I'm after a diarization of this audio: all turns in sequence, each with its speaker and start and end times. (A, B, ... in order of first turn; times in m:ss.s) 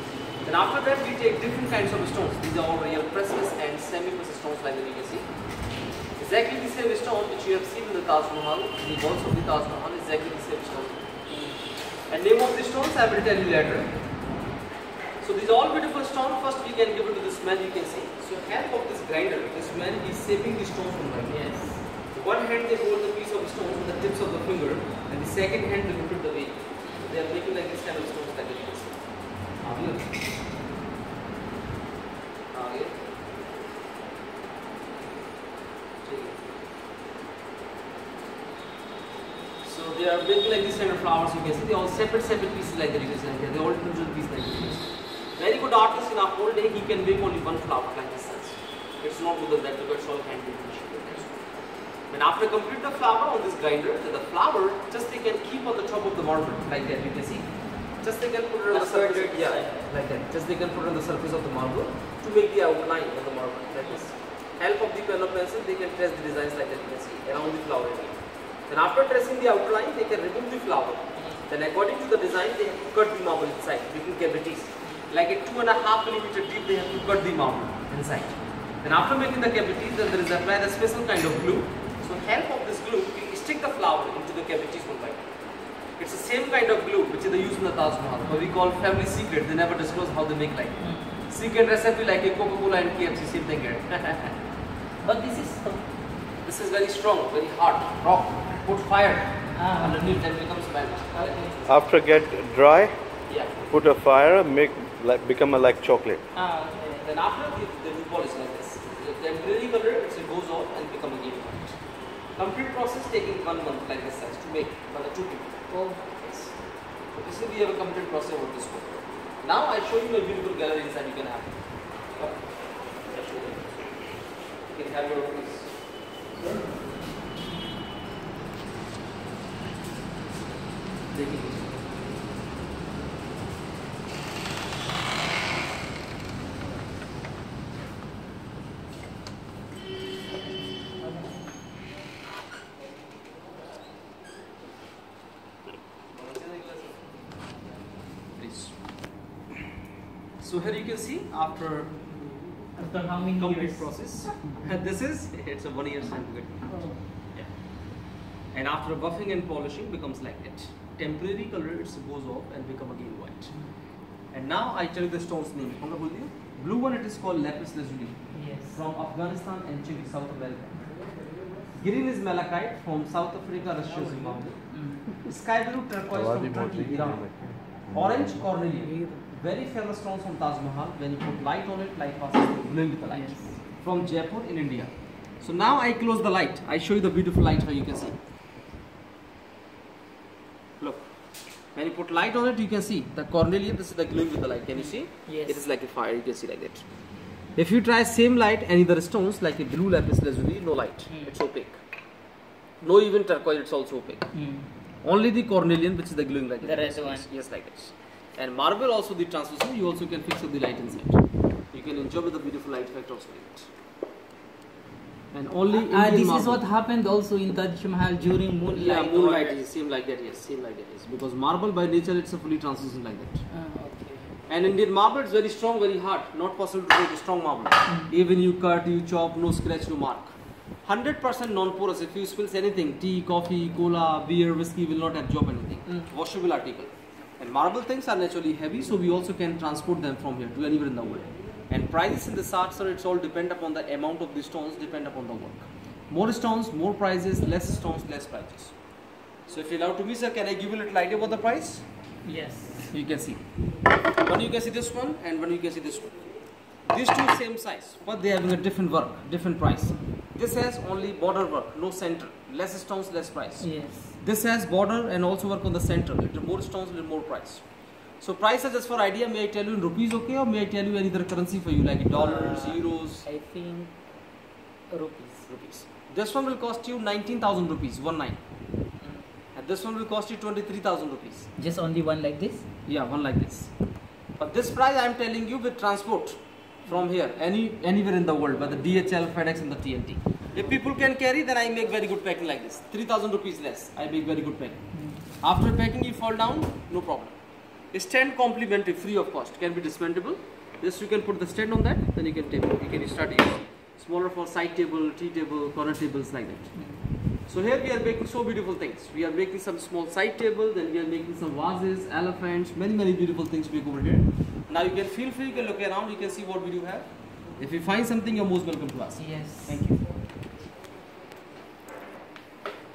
0:00.4-0:05.3 A
0:06.2-0:11.2 A
0:11.3-0:11.6 B
0:12.1-0:14.0 A
0:15.2-0:30.1 A
0:21.3-0:21.8 B
0:26.9-0:27.2 B
0:32.5-0:33.0 A
0:36.0-0:36.4 A
0:39.6-0:51.4 A
0:52.1-1:25.3 A
0:58.7-0:59.8 B
1:11.1-1:11.4 B
1:14.8-1:15.1 B
1:26.0-1:34.4 A
1:30.8-1:31.1 B
1:35.0-1:35.9 B
1:36.4-1:41.8 A
1:39.5-1:40.2 B
1:41.1-1:41.6 B
1:41.7-1:43.0 C
1:43.3-1:43.7 A
1:43.7-1:46.2 C
1:46.3-1:47.0 B
1:47.0-1:51.8 A
1:52.4-1:56.6 A
1:55.7-1:56.0 B
1:57.1-2:01.6 A
2:02.2-2:03.9 A
2:04.7-2:06.8 A
2:11.1-2:11.8 A
2:26.1-2:27.2 A
2:28.3-2:28.8 A
2:30.4-2:32.1 A
2:32.8-2:34.6 B
2:33.4-2:36.6 A
2:36.7-2:37.0 B
2:38.5-2:43.6 A
2:44.3-2:51.0 A
2:48.3-2:48.8 B
2:51.7-3:08.2 A
2:53.8-2:55.1 B
2:56.1-2:58.5 C
2:58.8-2:59.3 B
3:03.1-3:03.6 B
3:10.8-3:11.1 A
3:11.7-3:16.8 A
3:14.7-3:15.6 B
3:17.6-3:21.8 A
3:21.1-3:21.4 B
3:22.8-3:24.3 A
3:24.3-3:24.7 B
3:25.0-3:31.2 A
3:26.6-3:27.3 B
3:31.7-3:33.7 A
3:35.3-3:36.6 A
3:35.7-3:39.6 B
3:38.7-3:43.4 A
3:43.5-3:44.3 B
3:44.5-4:08.8 A
3:47.9-3:48.1 B
4:09.5-4:11.9 A
4:12.2-4:12.9 B
4:12.9-4:13.4 A
4:14.2-4:16.2 A
4:16.8-4:27.7 A
4:23.6-4:24.2 B
4:28.2-4:33.3 A
4:32.1-4:34.0 B
4:34.9-4:35.5 B
4:35.5-4:38.4 A
4:39.0-4:39.3 B
4:39.6-4:41.5 A
4:41.6-4:42.7 B
4:42.9-4:43.7 A
4:44.4-4:57.4 A
4:54.9-4:55.2 B
4:57.9-5:06.8 A
5:06.7-5:07.0 B
5:07.5-5:19.9 A
5:19.2-5:20.0 B